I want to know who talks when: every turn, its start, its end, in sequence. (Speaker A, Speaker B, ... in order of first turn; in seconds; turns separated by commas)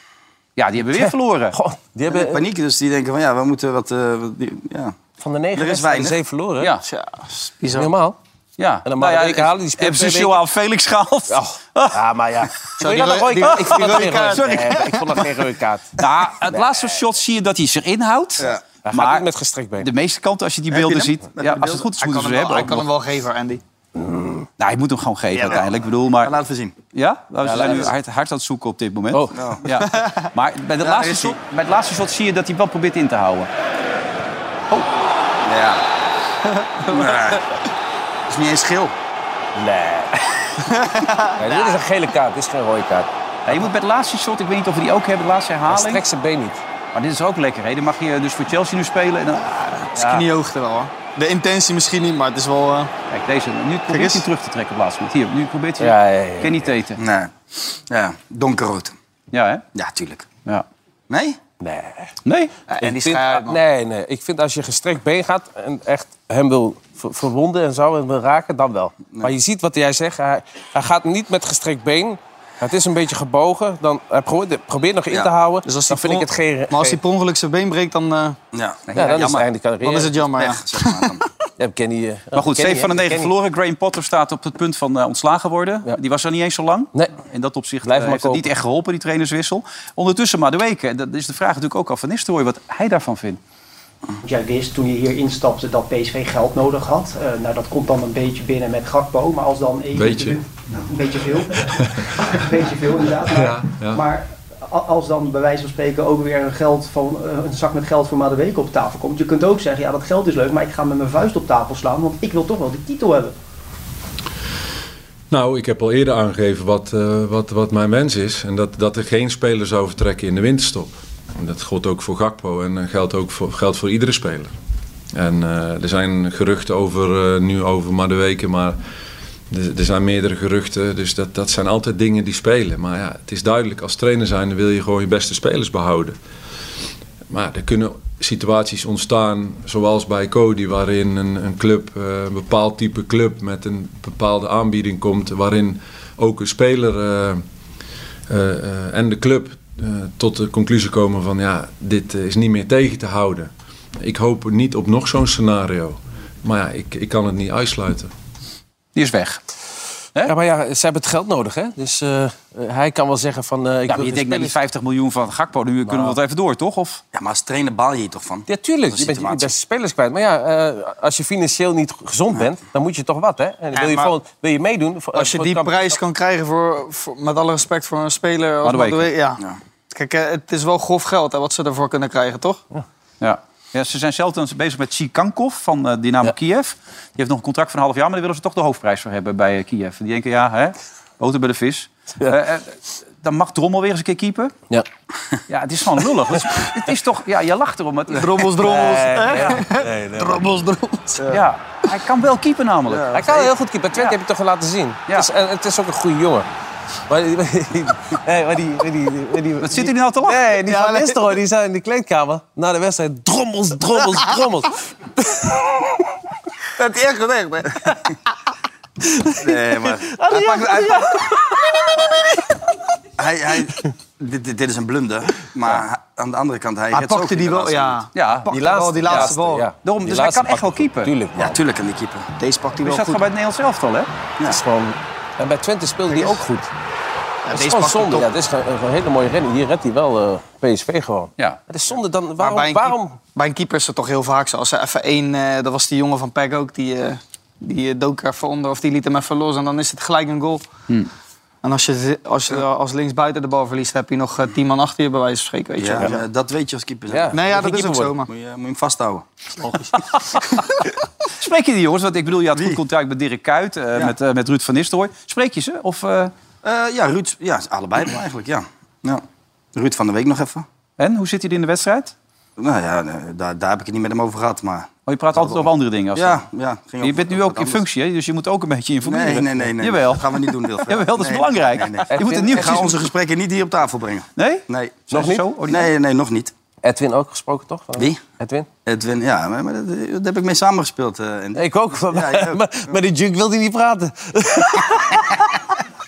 Speaker A: 0.6-1.6, Speaker B: 0.8-2.4, Speaker C: 2.1-4.9, Speaker B: 5.2-6.8, Speaker C: 5.6-6.2, Speaker D: 6.9-7.9, Speaker B: 7.7-8.2, Speaker A: 8.6-12.0, Speaker B: 8.8-10.4, Speaker B: 11.3-17.0, Speaker D: 12.8-15.1, Speaker A: 14.3-14.6, Speaker A: 16.0-19.3, Speaker B: 18.8-19.9, Speaker A: 19.8-22.9, Speaker C: 20.7-21.8, Speaker D: 22.0-23.6, Speaker B: 23.9-24.5, Speaker A: 24.6-26.4, Speaker C: 25.4-25.7, Speaker C: 26.2-26.7, Speaker A: 26.9-33.5, Speaker B: 27.4-27.9, Speaker B: 29.1-29.4, Speaker C: 29.4-29.6, Speaker D: 29.9-30.3, Speaker C: 30.8-31.4, Speaker C: 35.4-35.8, Speaker D: 36.6-37.0, Speaker C: 36.9-37.4, Speaker C: 38.3-38.9, Speaker B: 39.5-40.4, Speaker D: 40.7-41.8, Speaker B: 41.4-43.1, Speaker A: 43.5-46.0, Speaker B: 45.7-46.6, Speaker A: 46.9-50.3, Speaker D: 49.9-52.9, Speaker A: 53.1-57.0, Speaker D: 53.9-54.2, Speaker B: 55.8-56.7, Speaker C: 57.0-58.9, Speaker A: 59.3-59.6, Speaker C: 59.7-60.3, Speaker C: 61.1-61.4, Speaker B: 61.6-62.1, Speaker A: 62.2-62.5, Speaker D: 62.7-63.6, Speaker B: 62.8-77.0, Speaker D: 75.7-78.4, Speaker C: 78.5-79.5, Speaker B: 78.9-80.2, Speaker D: 79.8-80.9, Speaker C: 80.4-81.3, Speaker B: 81.6-83.3, Speaker A: 82.3-93.4, Speaker B: 87.8-88.5, Speaker E: 94.2-113.3, Speaker F: 99.9-100.4, Speaker F: 101.6-102.1, Speaker F: 103.3-104.0, Speaker F: 115.3-124.5, Speaker F: 125.1-128.8, Speaker F: 129.5-136.2, Speaker F: 137.3-147.4, Speaker F: 148.3-158.1, Speaker A: 158.9-159.4, Speaker B: 160.3-164.6, Speaker A: 163.9-167.0, Speaker B: 165.9-166.2, Speaker C: 167.1-169.5, Speaker B: 168.5-176.0, Speaker D: 173.7-174.1, Speaker D: 175.1-182.6, Speaker A: 178.6-179.1, Speaker A: 183.2-194.5, Speaker A: 195.5-198.8, Speaker D: 198.2-201.2, Speaker B: 198.6-200.5, Speaker A: 199.3-199.6, Speaker C: 201.2-201.4, Speaker A: 201.3-204.2, Speaker C: 202.9-203.3, Speaker B: 203.1-206.5, Speaker B: 207.1-215.9, Speaker A: 209.6-210.5, Speaker D: 210.7-211.2, Speaker D: 216.8-217.8, Speaker B: 219.1-221.4, Speaker C: 219.4-221.2, Speaker C: 223.2-228.1, Speaker D: 226.9-229.6, Speaker A: 228.1-228.5, Speaker B: 228.5-231.6, Speaker A: 229.1-231.1, Speaker C: 231.4-232.3, Speaker D: 232.4-233.2, Speaker A: 232.8-234.1, Speaker B: 234.5-236.7, Speaker D: 237.4-238.3, Speaker B: 237.5-243.2, Speaker D: 242.4-250.6, Speaker D: 251.6-256.2, Speaker C: 255.8-257.4, Speaker B: 257.1-258.1, Speaker D: 257.3-258.3, Speaker C: 258.3-259.3, Speaker A: 261.4-266.3, Speaker C: 266.6-270.7, Speaker A: 271.0-272.1, Speaker C: 272.6-277.8, Speaker A: 275.1-276.4, Speaker A: 277.0-283.0, Speaker C: 279.0-285.1, Speaker B: 282.1-282.9, Speaker A: 284.4-285.9, Speaker B: 285.1-285.4, Speaker C: 285.7-286.5, Speaker B: 286.8-288.7, Speaker C: 288.8-292.9, Speaker B: 291.6-295.4